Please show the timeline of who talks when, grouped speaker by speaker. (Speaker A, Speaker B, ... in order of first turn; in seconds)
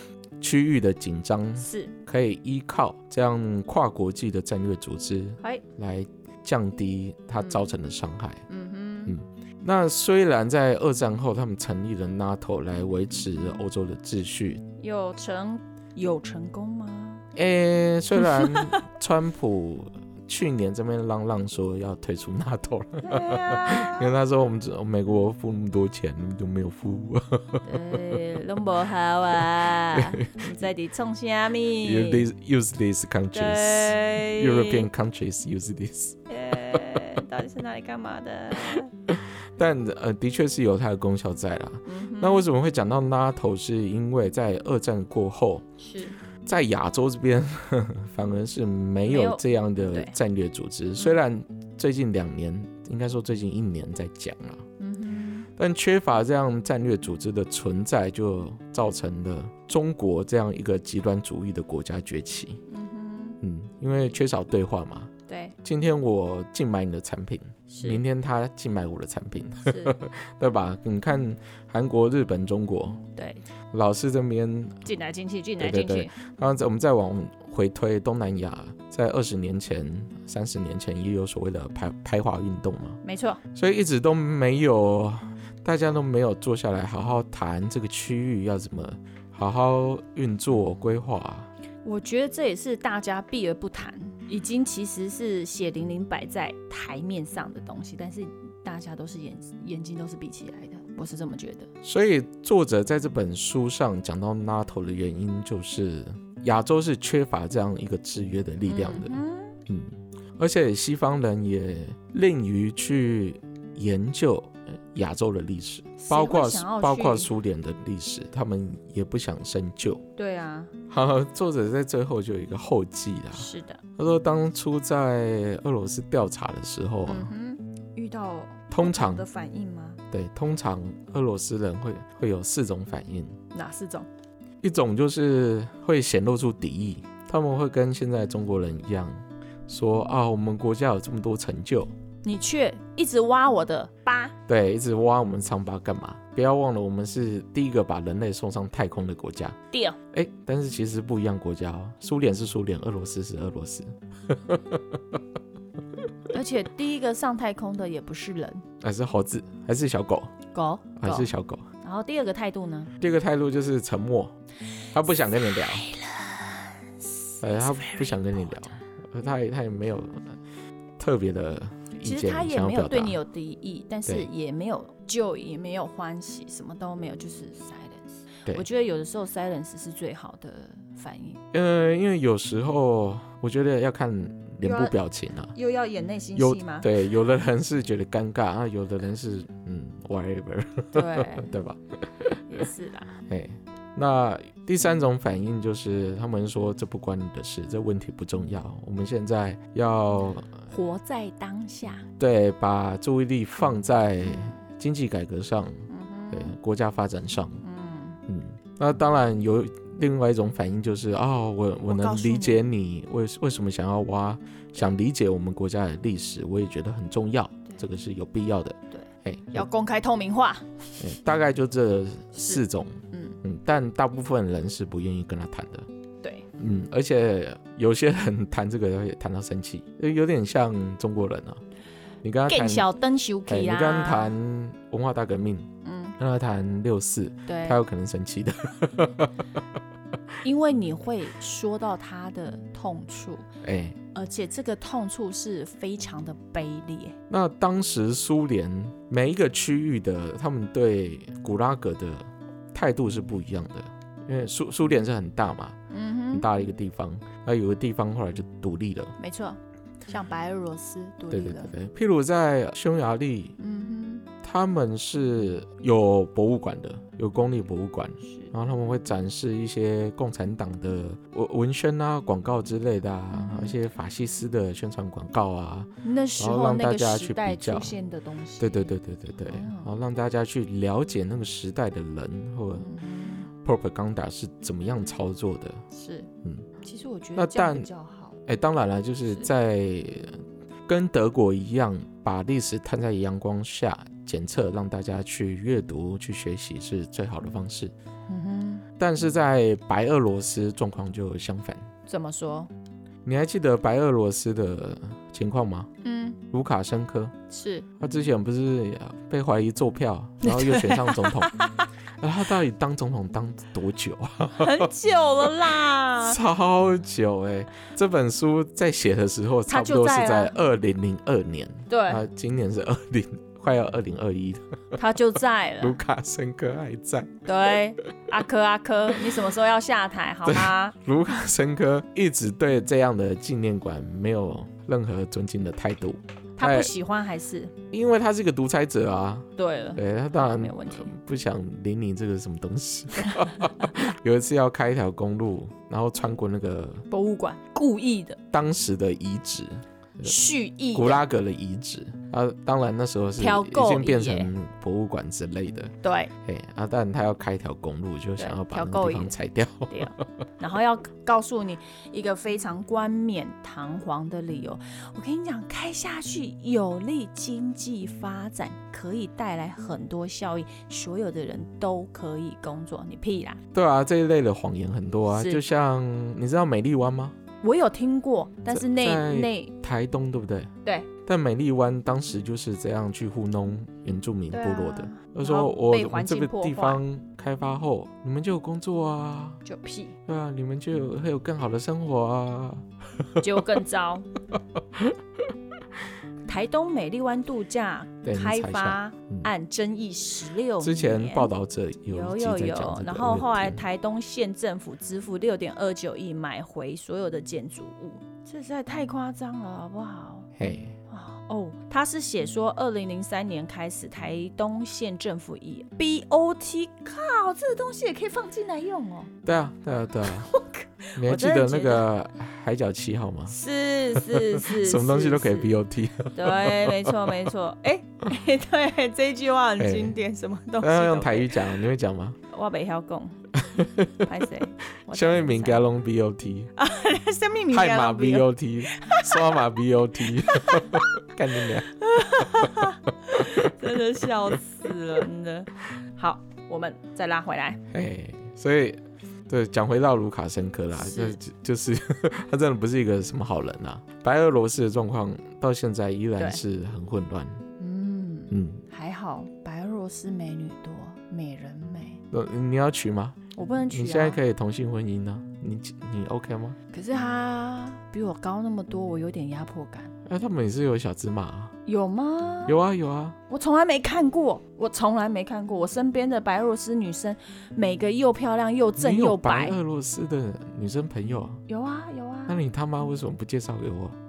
Speaker A: 0.4-8.4, 9.1-14.6, 17.3-28.2, 29.9-30.3, 31.8-37.0, 38.7-45.6, 46.5-54.6, 55.6-62.6, 63.4-65.1, 65.6-73.0, 73.7-74.9, 75.6-83.0, 83.5-91.5, 101.8-120.0, 120.9-127.3, 128.7-129.2, 130.1-133.4, 134.6-141.9, 144.5-149.6, 150.1-155.2, 158.8-160.3, 161.0-161.7, 163.0-164.3, 164.9-165.8, 167.4-170.4, 171.0-173.2, 181.5-185.5, 186.3-192.6, 193.2-200.7, 202.2-207.6, 208.3-219.7, 221.0-225.9, 226.6-231.6, 232.2-232.9, 233.4-239.6, 243.6-244.0, 247.3-255.8, 256.3-259.1, 261.3-263.6, 264.4-277.9, 278.6-282.9, 283.6-285.8, 287.4-287.9, 288.4-297.9, 299.0-301.9, 303.2-305.9, 306.5-307.3, 308.0-311.6, 312.2-314.9, 316.2-325.0, 325.8-327.8, 330.4-336.9, 337.9-347.1, 348.5-350.4, 350.9-360.1, 373.7-377.4, 378.7-380.7, 381.2-389.6, 390.3-393.7, 398.2-399.5, 400.8-403.8, 410.6-411.0, 419.4-420.5, 421.1-423.6, 424.1-427.4, 429.8-430.1, 430.8-432.4, 433.6-434.3, 435.1-436.7, 437.7-442.8, 443.4-443.7, 447.9-457.6, 458.5-458.8, 462.3-463.4, 463.9-466.8, 470.2-471.7, 472.7-473.4, 479.0-481.6, 482.5-484.1
Speaker B: 1.6-1.9, 8.5-9.1, 14.8-17.2, 18.2-18.8, 23.0-24.1, 27.6-32.3, 33.3-34.9, 36.3-38.9, 41.9-42.5, 45.8-46.2, 49.0-50.1, 54.8-55.5, 62.7-63.4, 65.3-65.5, 67.7-68.0, 69.7-70.0, 73.2-73.4, 74.8-76.1, 83.0-83.4, 91.8-101.7, 108.7-109.6, 116.0-117.3, 120.2-120.7, 123.3-123.8, 127.0-130.0, 133.5-134.1, 142.2-144.3, 149.7-150.0, 156.3-158.6, 160.5-161.3, 161.8-162.9, 165.5-168.8, 172.0-181.4, 184.6-184.9, 185.5-186.9, 190.9-191.5, 192.5-193.1, 200.7-202.1, 204.2-204.6, 205.9-206.5, 207.6-208.2, 211.9-212.6, 218.9-221.1, 222.3-223.4, 226.2-226.5, 232.5-234.4, 235.8-236.2, 237.5-237.8, 240.4-243.5, 244.1-247.2, 255.9-256.5, 259.2-261.7, 263.6-264.2, 268.2-268.5, 273.3-273.8, 276.0-279.9, 282.8-283.5, 285.9-286.3, 286.8-288.4, 298.3-298.8, 302.1-302.7, 306.0-306.4, 307.5-307.9, 310.4-311.9, 314.6-316.4, 319.7-320.6, 321.9-322.2, 324.9-326.0, 327.4-330.9, 336.6-337.7, 339.6-341.1, 343.2-343.9, 347.1-348.4, 350.2-351.2, 353.4-354.5, 356.0-356.3, 358.4-359.3, 359.9-373.6, 375.3-375.6, 377.6-379.7, 384.5-387.0, 389.6-390.1, 393.4-394.3, 396.4-401.5, 402.1-410.5, 411.1-419.3, 420.2-422.1, 423.5-425.8, 426.3-431.8, 432.5-433.4, 434.2-435.9, 436.8-439.6, 440.4-441.1, 441.9-447.8, 450.9-451.4, 457.8-462.2, 463.5-464.4, 466.9-470.1, 471.9-472.8, 473.5-479.8, 481.7-482.6